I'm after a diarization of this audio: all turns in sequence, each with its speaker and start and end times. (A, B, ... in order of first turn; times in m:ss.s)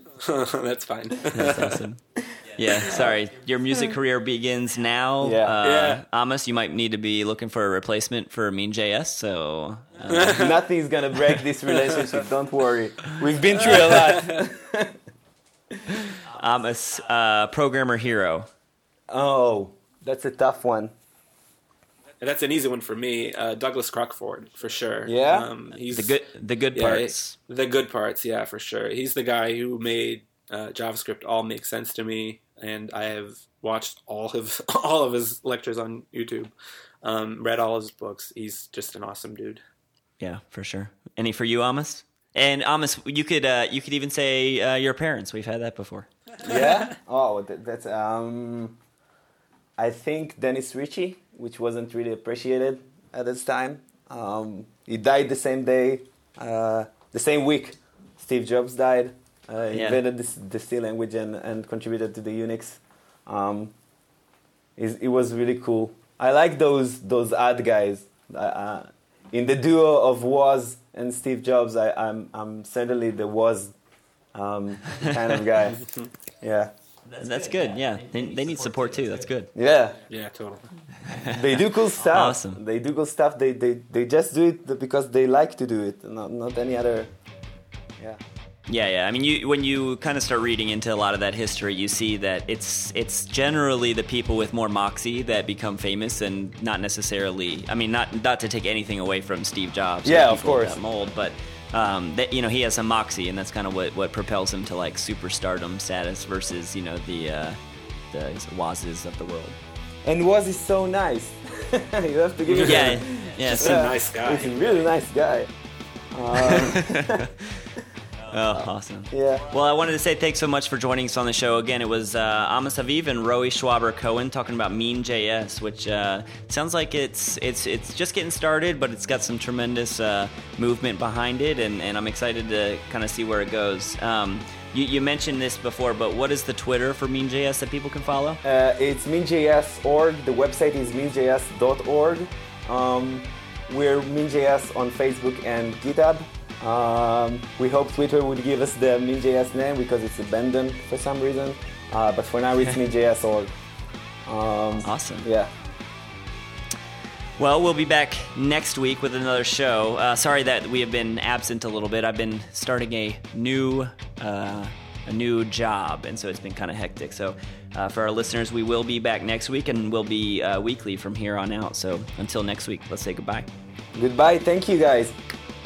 0:00.2-0:01.8 A
0:01.3-0:10.4 B
0:05.2-0:05.6 C
0:05.6-0:06.0 A
0:10.1-0:10.5 A
0:10.2-0:15.0 C
0:11.8-0:12.1 A
0:13.6-0:14.4 A
0:16.3-0:18.5 B
0:19.1-0:20.9 C
0:22.2-0:26.2 A
0:25.0-0:25.5 C
0:25.9-0:27.4 B
0:26.7-0:36.5 A
0:37.0-0:39.6 A
0:40.2-0:46.1 B
0:46.4-0:48.8 C
0:49.8-1:03.7 C
0:59.7-1:00.0 B
1:04.8-1:13.7 C
1:14.3-1:15.8 C
1:16.4-1:16.7 C
1:17.1-1:19.5 B
1:19.5-1:20.0 C
1:20.1-1:20.7 A
1:21.0-1:22.6 B
1:21.2-1:27.1 C
1:28.7-1:47.6 B
1:40.0-1:40.8 C
1:48.1-1:49.6 B
1:50.0-1:55.5 C
1:52.5-1:54.6 A
1:52.6-1:53.9 B
1:56.1-1:57.2 C
1:56.3-1:57.6 B
1:58.3-2:18.4 B
1:58.6-1:59.4 C
2:18.4-2:33.5 C
2:34.3-2:35.5 C
2:34.8-2:35.3 B
2:37.4-2:53.5 B
2:53.9-2:55.1 C